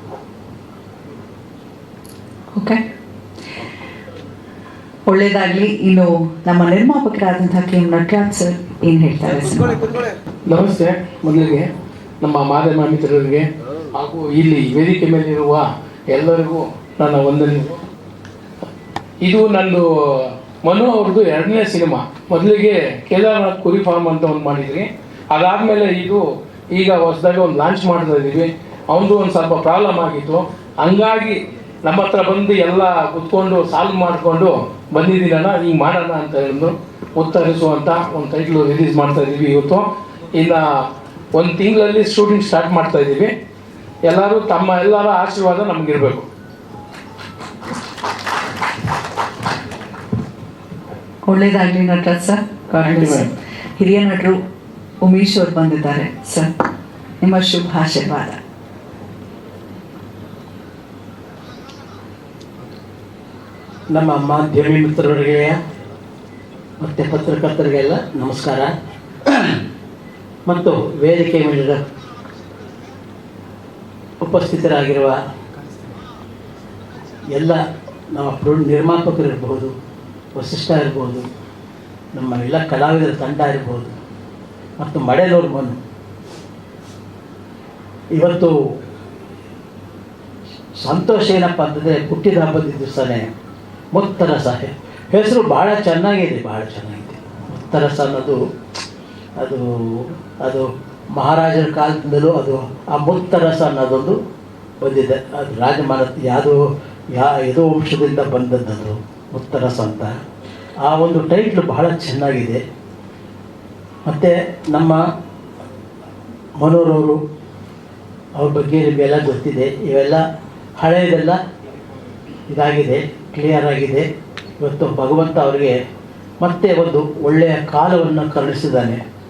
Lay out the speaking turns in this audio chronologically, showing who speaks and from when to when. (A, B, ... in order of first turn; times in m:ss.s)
0:02.6-0:02.8 A
0:05.1-0:09.8 A
0:10.5-0:11.7 B
0:12.2-0:17.8 B
0:19.2-0:19.9 B
0:20.6-0:40.6 B
0:41.4-0:43.3 B
0:44.1-0:46.3 B
0:51.2-0:54.4 A
0:52.9-0:53.3 B
0:55.0-0:56.5 A
0:57.2-0:58.4 A
1:03.9-1:05.6 C
1:06.8-1:08.7 C
1:10.5-1:11.8 C
1:14.2-1:15.2 C
1:17.4-1:17.6 C
1:18.1-1:19.7 C
1:20.4-1:21.3 C
1:22.2-1:24.0 C
1:24.8-1:25.8 C
1:28.2-1:28.6 C
1:30.8-1:33.3 C
1:33.9-1:38.4 C
1:39.4-1:44.2 C
1:44.8-1:46.6 C
1:47.1-1:50.2 C
1:50.8-1:52.6 C
1:54.1-1:55.0 C
1:56.6-1:57.2 C
1:58.4-2:00.2 C
2:00.8-2:01.4 C
2:02.5-2:04.1 C
2:04.6-2:05.8 C
2:06.4-2:09.0 C